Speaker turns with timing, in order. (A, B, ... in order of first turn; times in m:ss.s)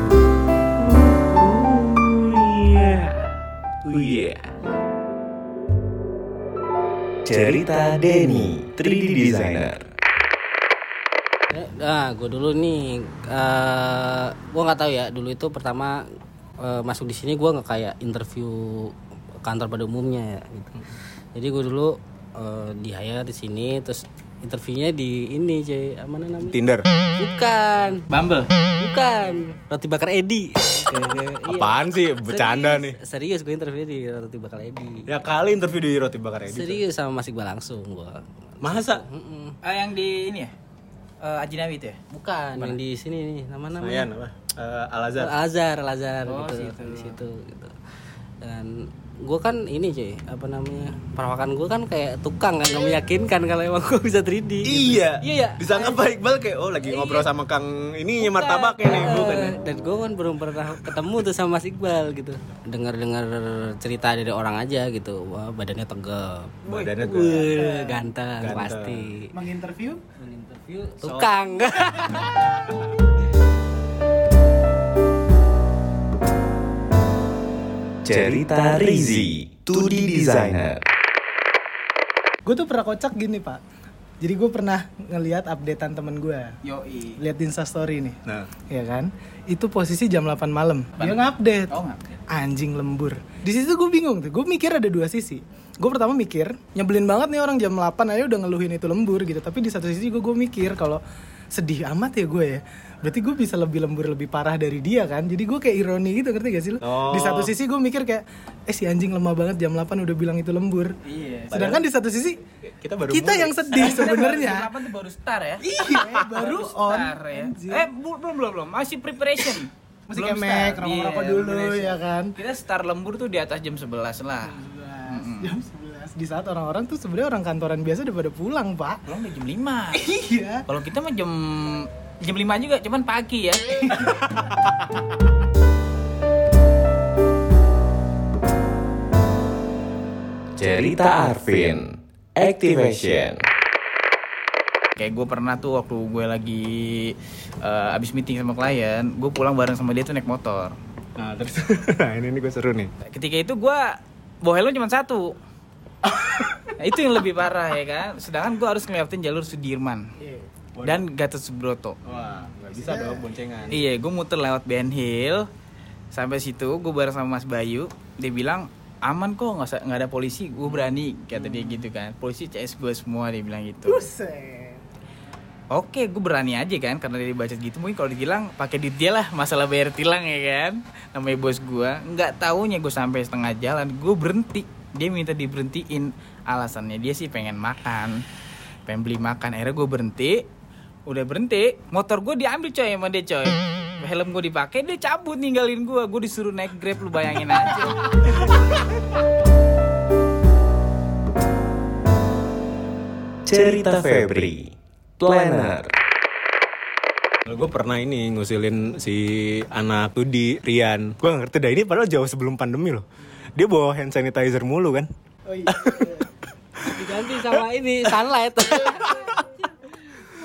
0:00.8-0:03.3 A
0:03.8-0:04.4 A
0:07.2-0:09.8 A
0:11.5-0:16.0 B
0:16.6-0:26.6 B
0:26.4-0:26.8 C
0:27.2-0:28.0 B
0:28.1-0:28.5 D
0:28.8-0:35.1 B
0:31.4-0:33.0 C
0:35.1-0:36.8 C
0:36.5-0:39.5 B
0:38.6-0:39.0 C
0:39.6-0:40.5 D
0:41.2-0:42.0 D
0:42.1-0:44.1 B
0:43.8-0:45.3 C
0:45.2-0:47.7 B
0:46.2-0:47.2 D
0:48.4-0:55.4 B
0:54.6-0:59.6 C
0:55.2-0:55.9 D
0:56.9-0:57.2 D
0:58.2-1:09.3 B
1:06.6-1:07.5 D
1:06.7-1:07.5 C
1:08.4-1:09.1 C
1:09.3-1:10.0 E
1:10.2-1:12.6 B
1:11.0-1:12.2 C
1:18.0-1:20.8 A
1:18.4-1:19.8 C
1:22.4-1:23.6 E
1:24.2-1:26.5 E
1:26.6-1:27.2 D
1:27.2-1:28.2 E
1:28.7-1:31.7 E
1:31.0-1:32.2 D
1:32.3-1:41.0 E
1:41.5-1:50.9 E
1:46.8-1:47.5 C
1:51.0-1:51.7 D
1:51.5-1:52.4 E
1:51.5-1:51.8 C
1:52.8-1:54.1 C
1:53.1-1:54.7 E
1:53.7-1:55.6 D
1:55.6-1:57.9 E
1:55.8-1:56.2 C
1:56.2-2:05.6 D
2:00.1-2:02.3 E
2:04.5-2:09.0 E
2:09.1-2:10.1 D
2:09.9-2:10.6 E
2:10.7-2:14.2 D
2:20.6-2:23.4 A
2:25.0-2:30.8 D
2:31.2-2:32.9 C
2:33.0-2:35.3 D
2:36.8-2:40.0 D
2:40.8-2:41.0 C
2:40.8-2:42.0 D
2:42.0-2:43.8 C
2:42.7-2:43.2 E
2:43.7-2:45.4 D
2:46.1-2:54.0 D
2:53.8-2:54.8 E
2:55.7-3:08.2 D
3:08.9-3:10.4 D
3:11.1-3:18.4 D
3:23.4-3:25.9 A
3:27.5-3:35.1 C
3:35.5-3:36.3 E
3:35.7-3:36.2 C
3:36.8-3:39.9 B